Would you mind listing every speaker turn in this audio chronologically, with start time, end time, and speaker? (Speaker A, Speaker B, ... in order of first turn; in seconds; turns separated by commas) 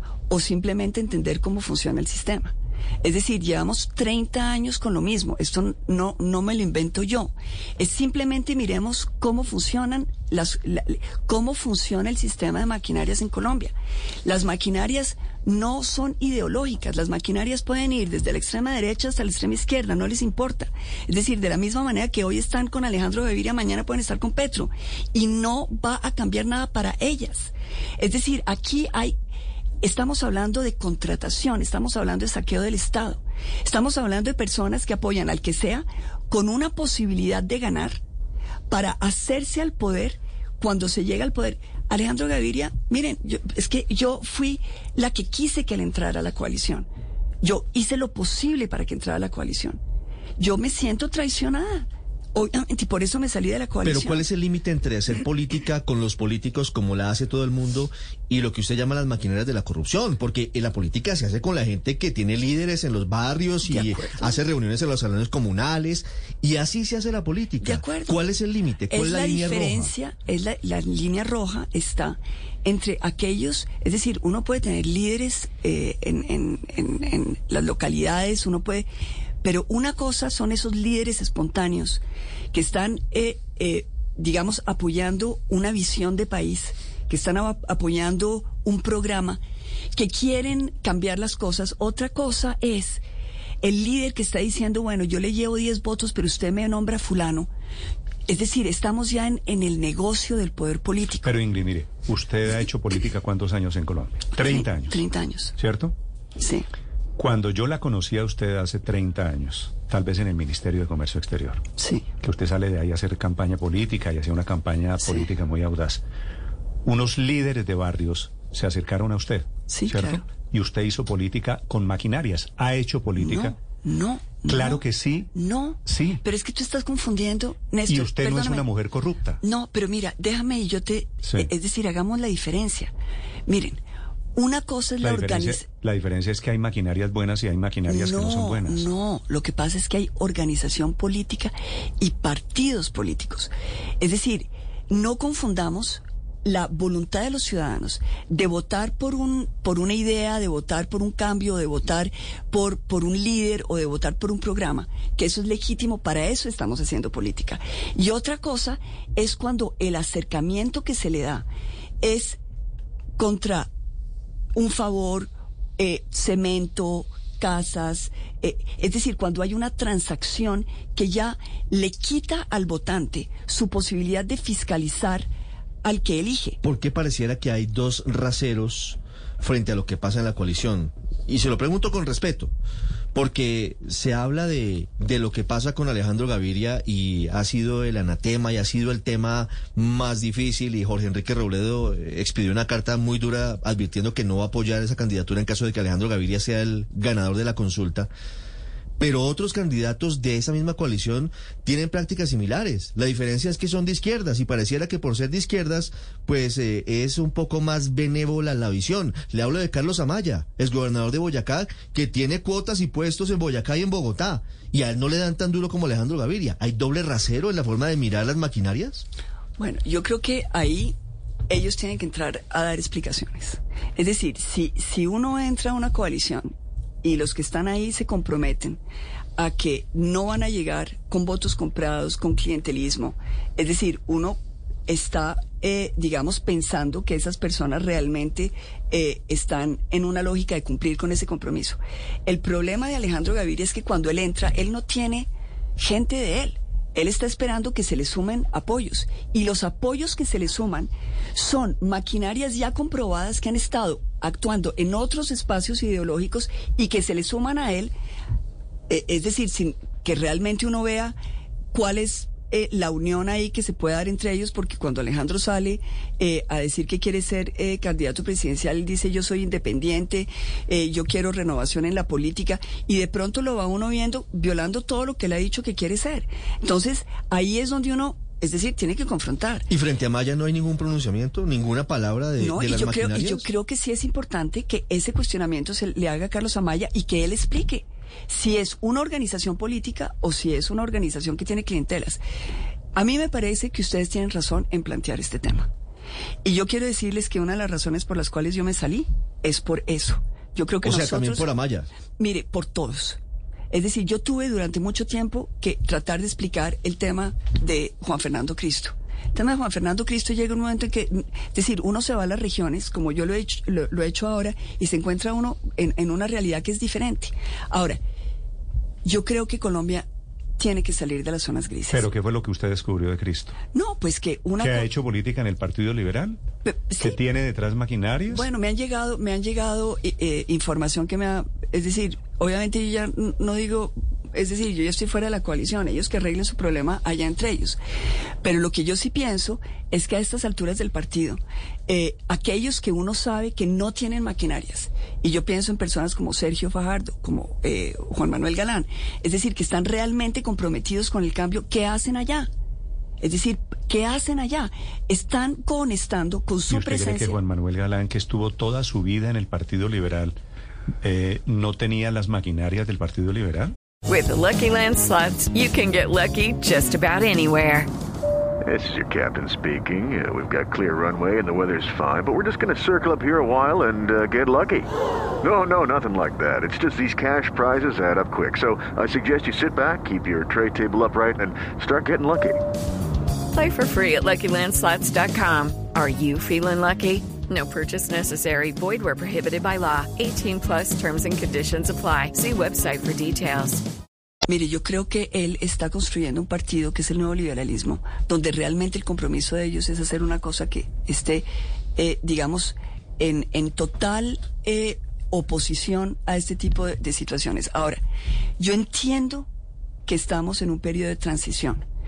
Speaker A: 0.3-13.7, Speaker A: 14.2-29.1, Speaker A: 29.8-38.0, Speaker A: 38.7-46.9, Speaker A: 47.4-49.8, Speaker A: 50.4-54.2, Speaker B: 53.8-69.9, Speaker A: 63.6-64.4, Speaker A: 67.6-68.2, Speaker A: 68.9-78.9, Speaker A: 79.4-82.0, Speaker A: 82.5-89.4, Speaker A: 89.9-93.0, Speaker A: 93.6-97.5, Speaker A: 98.3-101.4, Speaker C: 101.2-105.0, Speaker A: 104.4-105.6, Speaker C: 105.6-105.9, Speaker A: 106.4-106.7, Speaker C: 107.2-111.7, Speaker A: 111.8-112.1, Speaker C: 112.2-116.0, Speaker A: 115.0-115.3, Speaker C: 116.8-123.5, Speaker A: 119.7-120.2, Speaker A: 123.2-124.8, Speaker C: 124.5-125.3, Speaker A: 125.3-128.7, Speaker C: 125.8-126.2, Speaker C: 127.9-129.4, Speaker A: 129.4-132.9, Speaker A: 133.5-133.8, Speaker A: 134.3-135.7, Speaker C: 135.0-138.8, Speaker A: 137.9-161.5, Speaker A: 162.0-162.4, Speaker A: 163.2-163.7, Speaker A: 164.5-175.3, Speaker A: 175.8-176.6, Speaker B: 176.6-182.5, Speaker B: 183.1-198.1, Speaker B: 199.0-219.1, Speaker A: 219.6-220.9, Speaker A: 221.5-228.8, Speaker A: 229.4-257.9, Speaker A: 258.9-261.2, Speaker A: 261.7-279.7, Speaker B: 279.7-283.5, Speaker A: 282.4-292.2, Speaker A: 292.9-295.7, Speaker A: 296.4-301.5, Speaker B: 300.8-301.9, Speaker A: 302.2-303.2, Speaker A: 303.7-318.0, Speaker A: 319.1-320.1, Speaker A: 320.6-322.1, Speaker C: 321.9-323.6, Speaker A: 323.7-324.9, Speaker C: 324.6-326.4, Speaker A: 326.6-327.2, Speaker C: 327.0-328.4, Speaker A: 328.3-337.8, Speaker A: 338.4-352.5, Speaker A: 353.2-357.4, Speaker C: 356.7-360.4, Speaker C: 361.0-363.7, Speaker D: 364.1-367.9, Speaker E: 368.6-374.9, Speaker E: 375.4-382.6, Speaker D: 383.5-393.8, Speaker A: 394.5-408.0, Speaker A: 408.6-409.5, Speaker A: 410.1-411.9